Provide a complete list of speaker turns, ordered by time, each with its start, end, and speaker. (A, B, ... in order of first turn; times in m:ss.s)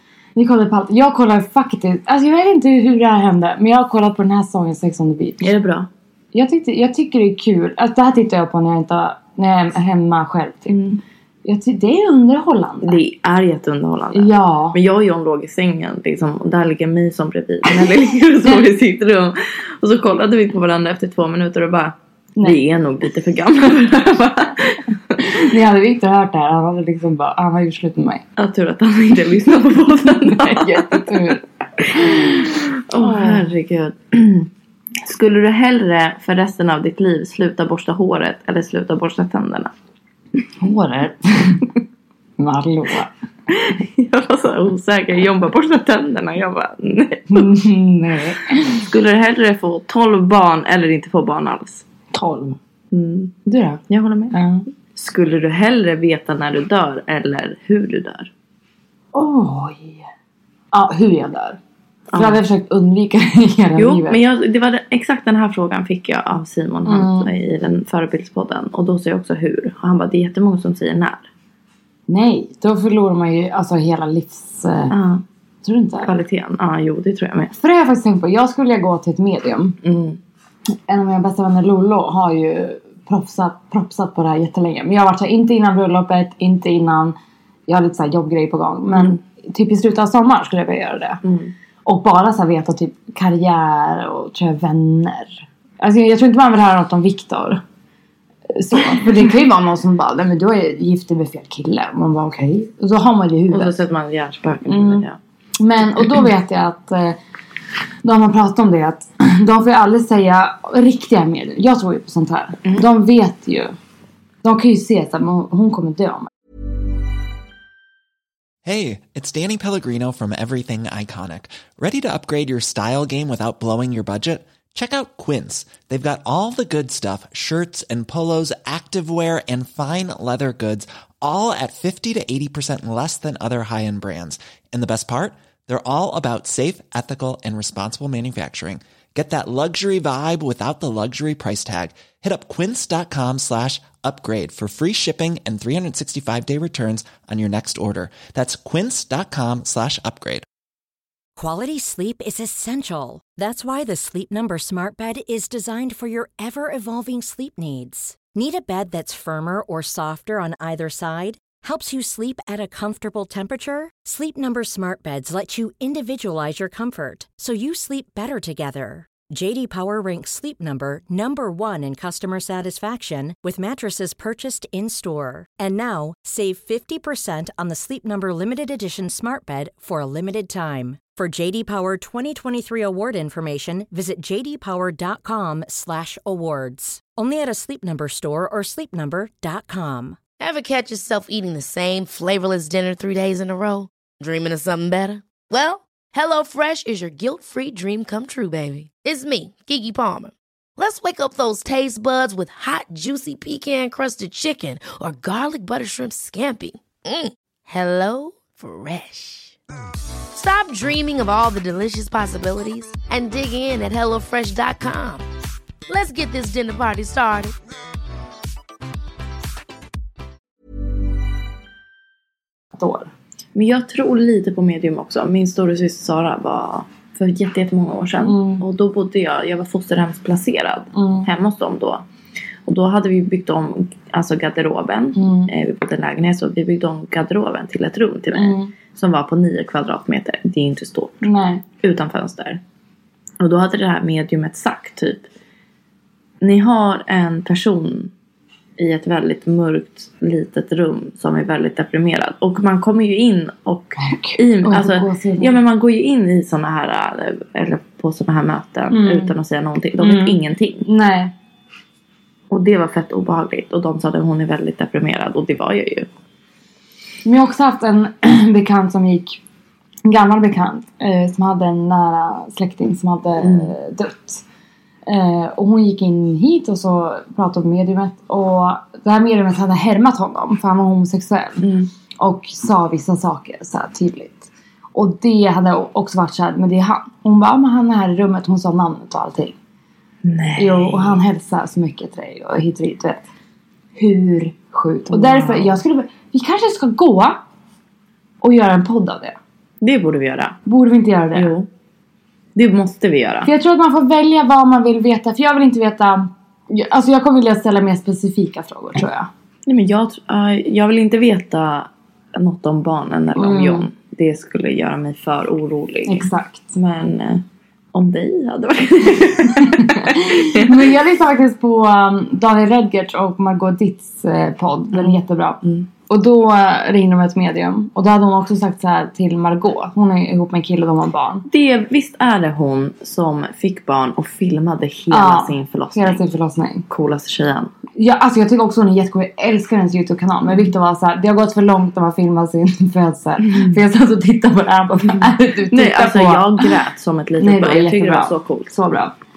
0:00.4-0:05.5 A
0:05.4-0:05.9 B
0:06.3-0:10.8 A
0:10.7-0:11.0 B
0:11.4-0:13.0 A
0:12.8-0:25.4 B
0:14.1-0:14.8 A
0:25.2-0:28.2 A
0:28.4-0:34.5 B
0:30.1-0:33.5 A
0:35.0-0:39.7 B
0:40.6-0:41.7 A
0:42.4-0:43.1 A
0:43.5-0:47.6 B
0:47.3-0:48.8 A
0:48.8-0:51.9 B
0:52.1-0:52.6 A
0:52.9-0:54.4 B
0:53.5-0:53.8 A
0:54.3-0:54.6 A
0:54.9-0:58.3 B
0:59.1-1:00.0 A
1:00.7-1:01.6 A
1:02.1-1:02.4 B
1:02.1-1:04.2 A
1:03.8-1:11.3 B
1:06.9-1:07.3 A
1:12.1-1:15.0 A
1:14.9-1:15.2 B
1:15.6-1:16.1 A
1:16.0-1:17.5 B
1:17.6-1:19.8 A
1:19.8-1:20.2 B
1:20.9-1:27.2 A
1:27.7-1:31.2 A
1:31.2-1:31.5 B
1:31.8-1:37.6 A
1:38.5-1:43.8 A
1:43.5-1:45.2 B
1:44.7-1:45.0 A
1:45.6-1:47.2 A
1:48.0-1:53.8 A
1:54.4-1:56.3 A
1:58.6-2:30.5 C
2:31.4-3:10.2 D
3:10.4-3:29.6 E
3:30.3-3:35.2 E
3:35.9-3:37.6 E
3:42.7-3:43.1 A
3:43.6-3:52.0 B
3:48.2-3:48.6 A
3:51.0-3:51.3 A
3:52.7-4:02.6 B
3:55.2-3:55.5 A
3:58.4-3:58.7 A
4:01.2-4:01.6 A
4:03.4-4:05.3 B
4:06.4-4:08.1 B
4:08.8-4:20.9 B
4:14.0-4:15.6 A
4:18.9-4:19.3 A
4:20.0-4:21.3 A
4:22.5-4:26.1 B
4:27.2-4:29.4 A
4:30.0-4:34.4 A
4:33.4-4:33.7 B
4:35.1-4:41.7 A
4:41.6-4:41.9 B
4:42.2-4:49.6 A
4:50.2-4:51.2 B
4:50.6-4:53.2 A
4:54.0-4:57.4 A
4:55.1-4:55.8 B
4:58.4-4:59.4 A
4:59.8-5:00.6 B
5:00.7-5:01.5 A
5:01.3-5:01.7 B
5:02.6-5:03.5 B
5:03.5-5:09.3 A
5:09.7-5:17.4 B
5:13.4-5:13.9 A
5:16.1-5:16.7 A
5:17.9-5:20.9 B
5:19.6-5:31.5 A
5:24.9-5:25.9 B
5:31.5-5:36.2 B
5:35.1-5:36.8 A
5:36.9-5:37.7 B
5:38.0-5:46.7 A
5:45.2-5:48.7 B
5:47.4-5:49.1 A